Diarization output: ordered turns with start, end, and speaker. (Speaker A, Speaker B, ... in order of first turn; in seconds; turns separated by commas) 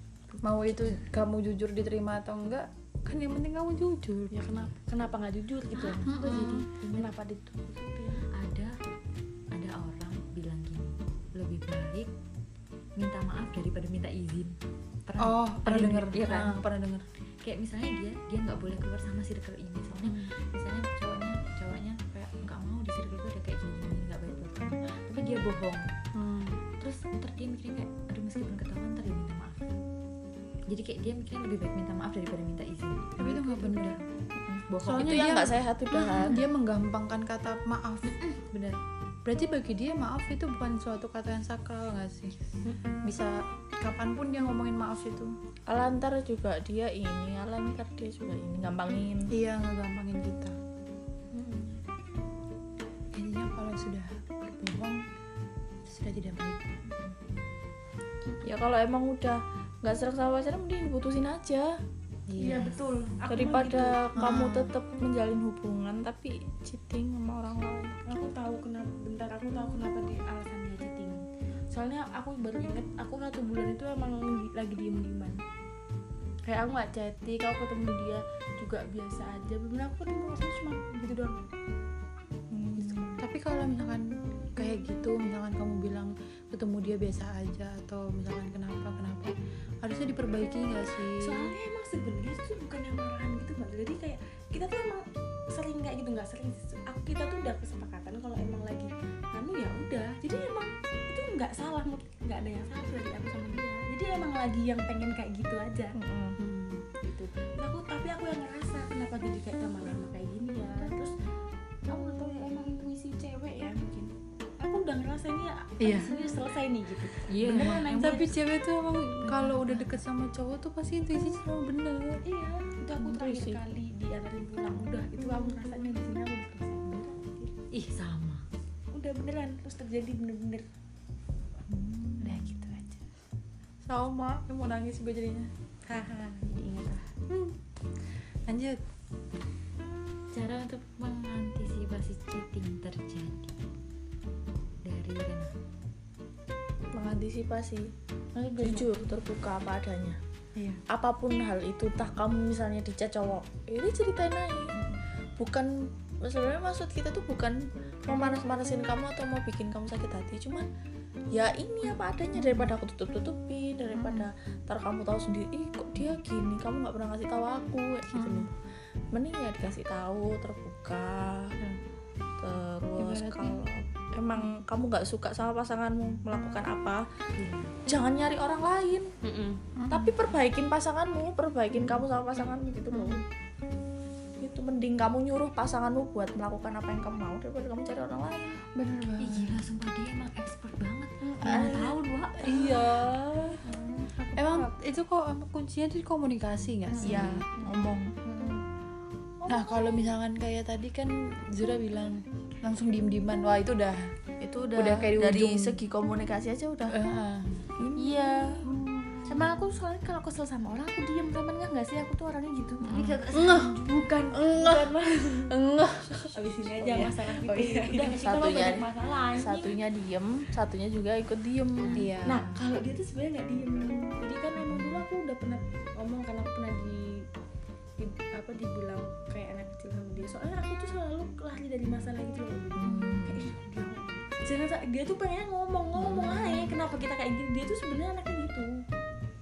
Speaker A: 0.4-4.6, Speaker B: 4.3-8.2, Speaker C: 5.8-7.1, Speaker A: 6.0-6.7, Speaker C: 8.3-8.8, Speaker C: 9.5-12.1, Speaker C: 13.0-16.6, Speaker A: 15.2-17.1, Speaker C: 17.4-25.9, Speaker A: 20.0-20.3, Speaker A: 26.1-26.6, Speaker C: 26.8-29.8, Speaker C: 30.7-35.3, Speaker A: 33.2-34.0, Speaker A: 34.8-38.2, Speaker D: 34.9-36.5, Speaker C: 38.3-38.8, Speaker A: 39.2-42.4, Speaker A: 43.0-45.3, Speaker D: 45.7-49.3, Speaker A: 49.3-50.6, Speaker B: 51.3-51.8, Speaker A: 53.1-55.0, Speaker A: 55.9-56.7, Speaker D: 58.4-61.8, Speaker A: 62.3-62.8, Speaker B: 62.4-64.0, Speaker D: 63.3-68.0, Speaker A: 64.2-64.7, Speaker B: 68.1-75.4, Speaker B: 76.5-81.4, Speaker D: 82.5-83.1, Speaker B: 82.8-83.2, Speaker A: 83.2-91.5, Speaker B: 91.1-106.0, Speaker D: 106.0-106.4, Speaker A: 106.4-106.8, Speaker B: 107.0-111.2, Speaker B: 111.9-118.3, Speaker A: 115.8-116.2, Speaker C: 117.2-118.3, Speaker A: 117.5-122.2, Speaker C: 119.2-119.9, Speaker B: 122.2-127.5, Speaker D: 123.1-123.6, Speaker C: 127.7-128.4, Speaker B: 128.9-130.7, Speaker C: 131.7-132.8, Speaker A: 132.2-132.7, Speaker B: 132.5-132.8, Speaker A: 133.8-135.5, Speaker B: 135.9-137.1, Speaker A: 137.3-138.8, Speaker C: 140.3-143.6, Speaker C: 144.8-145.5, Speaker D: 146.9-147.9, Speaker B: 148.3-149.1, Speaker D: 148.6-150.2, Speaker A: 150.6-150.8, Speaker D: 150.9-154.8, Speaker D: 155.4-160.7, Speaker D: 161.3-168.5, Speaker A: 163.9-164.3, Speaker A: 168.1-168.5, Speaker D: 169.1-171.6, Speaker D: 172.4-177.1, Speaker A: 173.0-173.7, Speaker C: 177.4-177.8, Speaker D: 177.9-179.1, Speaker B: 179.2-179.6, Speaker A: 179.8-180.2, Speaker D: 179.9-183.2, Speaker D: 184.4-188.6, Speaker A: 188.7-189.6, Speaker C: 189.2-192.4, Speaker D: 191.3-193.6, Speaker A: 192.4-193.2, Speaker A: 194.3-197.5, Speaker D: 197.0-198.2, Speaker B: 199.4-200.0, Speaker A: 199.5-204.1, Speaker D: 204.4-207.0, Speaker A: 204.8-205.8, Speaker A: 206.9-207.7, Speaker D: 207.8-208.7, Speaker B: 208.0-208.7, Speaker A: 208.7-209.5, Speaker B: 209.2-213.1, Speaker C: 212.8-213.8, Speaker D: 212.9-213.2, Speaker A: 213.3-214.5, Speaker D: 214.0-215.1, Speaker B: 214.3-215.5, Speaker A: 215.5-218.2, Speaker B: 216.3-219.8, Speaker D: 216.8-222.0, Speaker C: 221.8-222.1, Speaker A: 221.9-222.6, Speaker B: 222.2-227.3, Speaker C: 224.7-225.0, Speaker B: 228.0-238.8, Speaker C: 232.8-233.5, Speaker A: 236.1-236.7